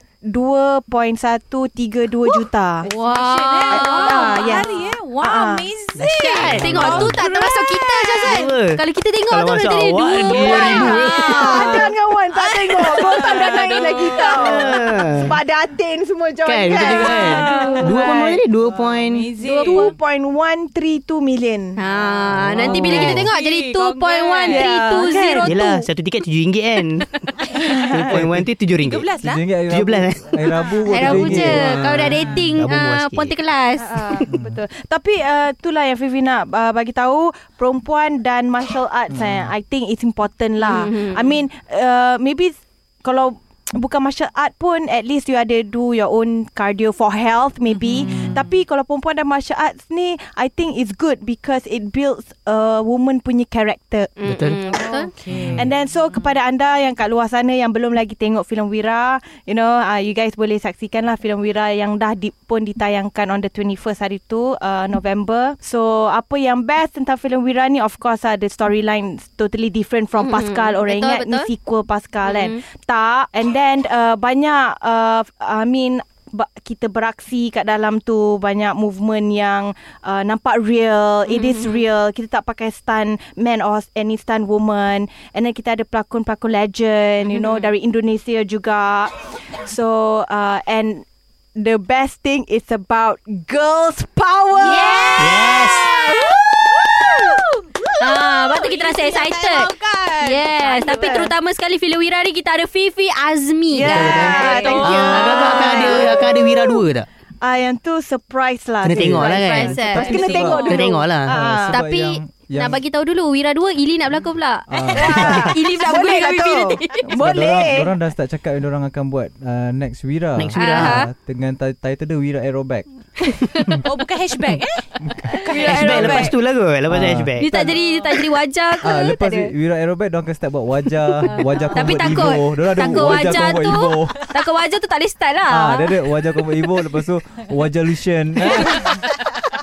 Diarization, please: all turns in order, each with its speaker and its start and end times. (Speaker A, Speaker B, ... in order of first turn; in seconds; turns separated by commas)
Speaker A: 0.2-2.9, Speaker B: 2.3-4.7, Speaker C: 2.9-8.5, Speaker A: 3.7-5.7, Speaker D: 6.0-7.2, Speaker B: 6.1-11.8, Speaker E: 6.8-7.0, Speaker D: 8.2-11.9, Speaker C: 10.2-11.6, Speaker A: 10.4-18.3, Speaker B: 12.3-14.7, Speaker C: 13.2-14.2, Speaker D: 14.3-15.3, Speaker D: 16.4-19.3, Speaker C: 16.8-19.9, Speaker B: 19.4-19.9, Speaker A: 19.6-21.8, Speaker B: 21.8-25.6, Speaker C: 21.9-25.5, Speaker D: 22.4-23.3, Speaker A: 24.5-25.9, Speaker D: 25.4-29.1, Speaker C: 27.4-27.9, Speaker E: 28.1-28.5, Speaker C: 28.8-29.4, Speaker E: 29.2-32.4, Speaker D: 29.7-30.4, Speaker C: 30.5-31.1, Speaker B: 30.9-34.3, Speaker D: 31.0-33.3, Speaker C: 33.8-34.3, Speaker E: 34.3-34.6, Speaker A: 34.3-54.1, Speaker E: 39.1-39.5, Speaker B: 40.6-41.4, Speaker C: 47.8-48.4, Speaker B: 54.2-55.1, Speaker D: 54.2-54.6, Speaker C: 54.6-56.4, Speaker E: 55.3-55.7, Speaker A: 55.5-91.0, Speaker B: 70.2-71.5, Speaker B: 72.2-72.6, Speaker B: 81.3-81.8, Speaker B: 87.3-87.7, Speaker A: 91.6-97.4, Speaker B: 94.6-96.4, Speaker C: 94.7-96.0, Speaker D: 95.2-95.9, Speaker C: 97.1-101.3, Speaker B: 98.0-106.1, Speaker A: 103.7-106.8, Speaker D: 103.9-107.1, Speaker C: 104.2-105.1, Speaker A: 107.4-111.8, Speaker D: 108.8-109.8, Speaker E: 108.9-110.8, Speaker B: 109.3-110.3, Speaker C: 110.0-110.8, Speaker D: 110.7-111.6, Speaker E: 111.6-112.8, Speaker B: 111.7-117.0, Speaker E: 114.7-115.6, Speaker A: 115.0-117.9, Speaker E: 117.2-122.8, Speaker D: 120.4-121.0, Speaker B: 120.6-121.1, Speaker E: 123.5-123.8, Speaker C: 123.8-126.3, Speaker E: 125.1-125.3, Speaker B: 125.3-126.3, Speaker D: 125.6-127.5, Speaker E: 126.9-127.8, Speaker B: 127.4-129.5, Speaker C: 127.8-128.2, Speaker E: 128.8-134.2, Speaker C: 131.3-132.3, Speaker B: 131.7-136.0, Speaker E: 135.5-139.0, Speaker C: 138.5-139.3, Speaker B: 138.5-138.9